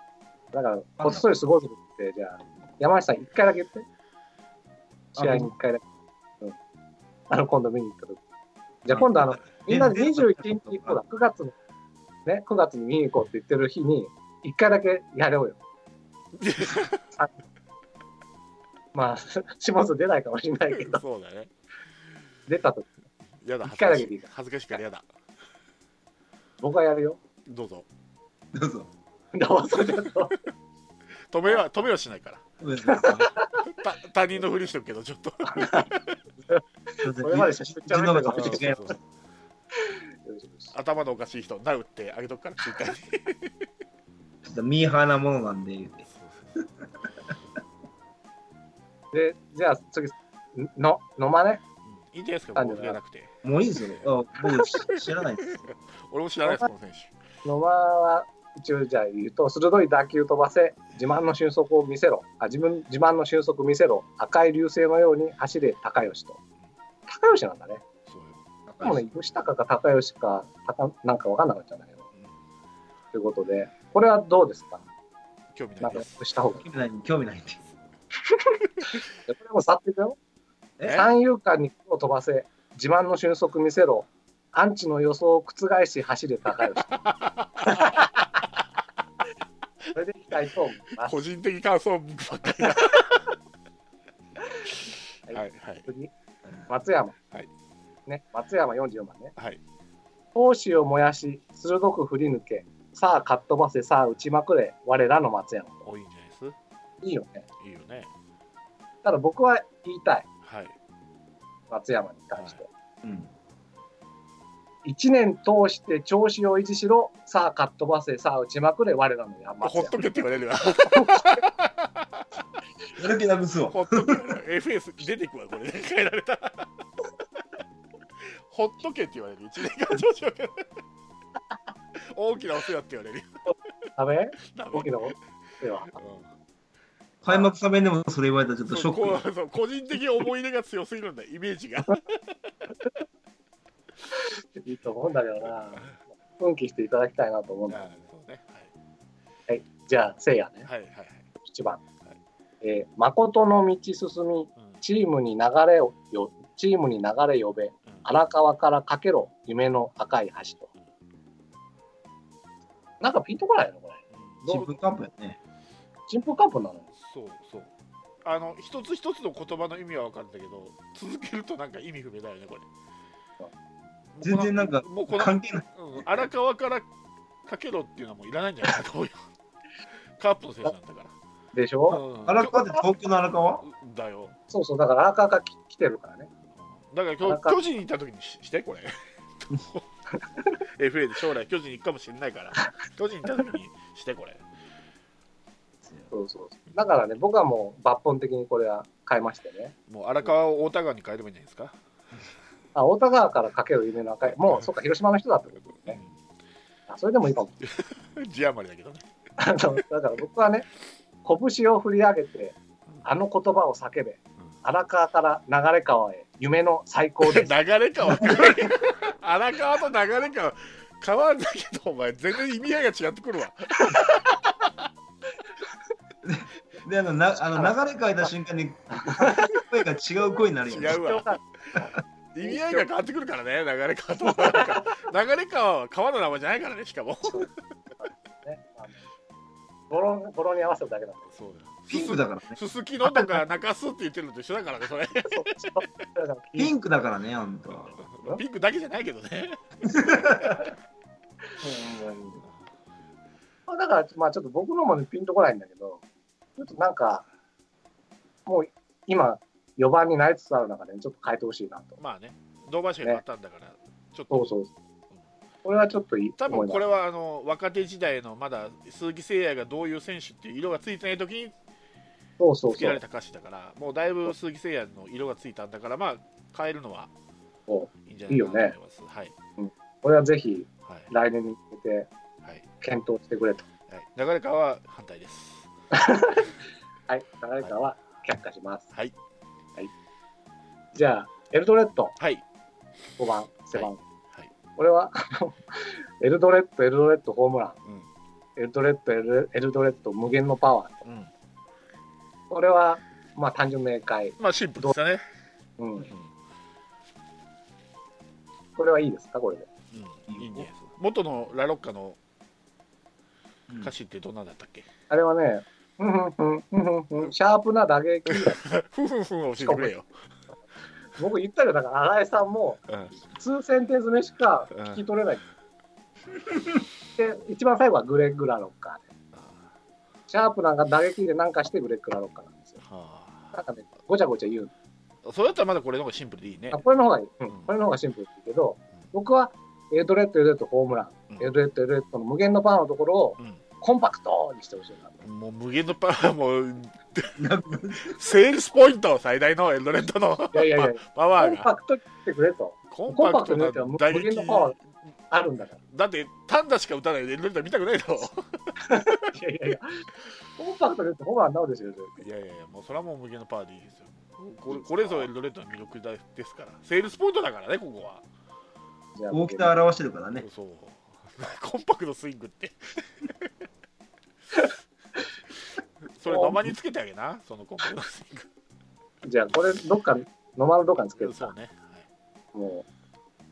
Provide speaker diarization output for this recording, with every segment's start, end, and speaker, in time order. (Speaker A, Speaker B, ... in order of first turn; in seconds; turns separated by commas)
Speaker A: 0.5-3.8, Speaker B: 1.0-1.2, Speaker B: 5.2-5.5, Speaker A: 5.2-5.8, Speaker A: 7.3-8.2, Speaker A: 8.8-11.5, Speaker B: 8.9-11.0, Speaker A: 12.2-15.6, Speaker C: 16.4-17.0, Speaker A: 18.9-21.0, Speaker C: 20.8-21.5, Speaker A: 22.5-22.9, Speaker C: 23.4-25.0, Speaker A: 23.6-24.3, Speaker A: 26.6-27.2, Speaker C: 27.4-27.9, Speaker B: 28.5-28.9, Speaker A: 29.3-30.4, Speaker C: 31.3-32.4, Speaker B: 32.6-33.3, Speaker A: 32.9-33.6, Speaker C: 33.6-36.0, Speaker A: 35.5-35.9, Speaker A: 36.5-38.9, Speaker B: 37.0-39.0, Speaker C: 38.4-39.0, Speaker A: 39.8-40.7, Speaker C: 40.7-43.5, Speaker B: 44.4-46.0, Speaker C: 46.1-46.6, Speaker A: 49.1-51.6, Speaker C: 51.8-53.3, Speaker A: 52.5-53.0, Speaker B: 53.4-55.7, Speaker C: 54.9-57.1, Speaker A: 57.4-66.4, Speaker A: 67.1-67.8, Speaker C: 68.1-68.4, Speaker B: 68.7-69.0, Speaker A: 68.8-72.0, Speaker A: 73.1-74.8, Speaker C: 75.5-76.1, Speaker A: 75.8-76.6, Speaker B: 76.4-77.6, Speaker A: 78.8-80.2, Speaker A: 80.8-87.0, Speaker C: 87.0-88.2, Speaker A: 87.7-88.1, Speaker A: 89.9-91.2, Speaker C: 91.0-93.3, Speaker A: 92.7-93.0, Speaker A: 95.3-96.1, Speaker C: 95.3-95.8, Speaker A: 96.7-97.2, Speaker A: 98.1-99.3, Speaker A: 100.3-105.8, Speaker C: 105.8-106.5, Speaker A: 107.0-107.4, Speaker C: 107.6-108.1, Speaker A: 109.0-110.2, Speaker C: 110.4-110.7, Speaker A: 111.7-112.7, Speaker B: 113.0-113.3, Speaker A: 114.8-120.0, Speaker C: 119.6-122.2, Speaker A: 120.8-121.2, Speaker B: 123.0-124.3, Speaker C: 123.7-126.7, Speaker C: 128.2-130.7, Speaker C: 132.1-133.3, Speaker A: 134.0-135.9, Speaker C: 134.5-134.9, Speaker C: 135.9-136.2, Speaker B: 137.2-139.2, Speaker C: 138.7-142.2, Speaker A: 144.3-147.8, Speaker C: 147.7-148.7, Speaker A: 149.5-150.7, Speaker C: 150.7-151.3, Speaker A: 151.4-151.8, Speaker A: 152.6-160.7, Speaker A: 163.0-164.7, Speaker C: 164.1-164.4, Speaker B: 164.5-165.4, Speaker A: 166.1-166.9, Speaker C: 167.0-167.7, Speaker C: 168.2-172.7, Speaker C: 174.1-176.9, Speaker B: 174.2-175.7, Speaker C: 177.5-179.2, Speaker C: 180.2-181.1, Speaker A: 181.5-182.0, Speaker C: 181.9-182.8, Speaker B: 182.2-183.6, Speaker C: 183.7-184.3, Speaker A: 184.5-186.3, Speaker C: 186.8-188.9, Speaker A: 187.2-187.6, Speaker C: 189.5-189.8, Speaker C: 190.8-194.4, Speaker A: 196.1-199.7, Speaker C: 199.9-201.7, Speaker A: 202.7-206.0, Speaker A: 206.9-207.6, Speaker C: 207.6-209.0, Speaker A: 209.4-210.7, Speaker A: 211.2-217.5, Speaker C: 217.2-224.5, Speaker A: 218.1-218.7, Speaker A: 223.8-224.2, Speaker B: 226.2-231.2, Speaker A: 229.0-229.5, Speaker C: 230.7-231.3, Speaker A: 230.9-231.4, Speaker C: 232.3-237.5, Speaker A: 232.4-232.9, Speaker A: 234.4-234.8, Speaker A: 237.3-239.0, Speaker A: 239.9-241.3, Speaker C: 241.3-245.8, Speaker B: 241.9-242.6, Speaker A: 243.0-243.4, Speaker A: 245.3-246.7, Speaker B: 246.6-247.9, Speaker C: 247.9-249.6, Speaker B: 249.8-250.6, Speaker A: 251.6-252.4, Speaker A: 253.7-256.0, Speaker A: 256.6-257.2, Speaker A: 258.4-262.0, Speaker C: 262.0-264.5, Speaker A: 264.3-264.7, Speaker A: 265.6-266.8, Speaker C: 266.4-271.5, Speaker A: 272.4-273.0, Speaker C: 272.7-277.1, Speaker A: 277.7-278.7, Speaker C: 278.1-279.3, Speaker A: 279.6-282.1, Speaker A: 282.8-283.6, Speaker C: 283.9-285.7, Speaker A: 285.9-286.5, Speaker A: 287.1-288.9, Speaker A: 290.9-292.1, Speaker A: 293.2-294.0, Speaker C: 293.7-294.5, Speaker A: 294.8-297.8, Speaker A: 298.6-301.0, Speaker C: 301.0-301.3, Speaker A: 302.5-304.9, Speaker C: 304.4-305.2, Speaker A: 305.8-306.1, Speaker A: 308.8-309.7, Speaker C: 309.9-312.2, Speaker B: 310.3-310.7, Speaker C: 313.8-314.9, Speaker A: 315.1-318.6, Speaker C: 318.3-320.1, Speaker A: 319.6-319.9, Speaker A: 321.1-325.4, Speaker C: 324.7-325.0, Speaker A: 327.2-329.0, Speaker C: 329.3-329.6, Speaker A: 330.3-332.8, Speaker C: 332.8-333.6, Speaker A: 333.5-334.7, Speaker C: 335.2-336.8, Speaker A: 336.7-345.2, Speaker C: 345.2-347.4, Speaker B: 347.4-348.2, Speaker C: 348.0-351.7, Speaker A: 350.5-354.8, Speaker C: 352.9-354.8, Speaker A: 355.3-355.8, Speaker C: 355.9-358.8, Speaker A: 358.8-360.0, Speaker A: 360.6-362.1, Speaker C: 362.2-368.2, Speaker A: 364.7-365.3, Speaker A: 369.1-369.7, Speaker B: 369.3-370.4, Speaker C: 370.4-372.9, Speaker C: 376.1-378.5, Speaker A: 376.3-376.7, Speaker A: 379.2-381.5, Speaker C: 381.2-382.0, Speaker A: 382.5-382.9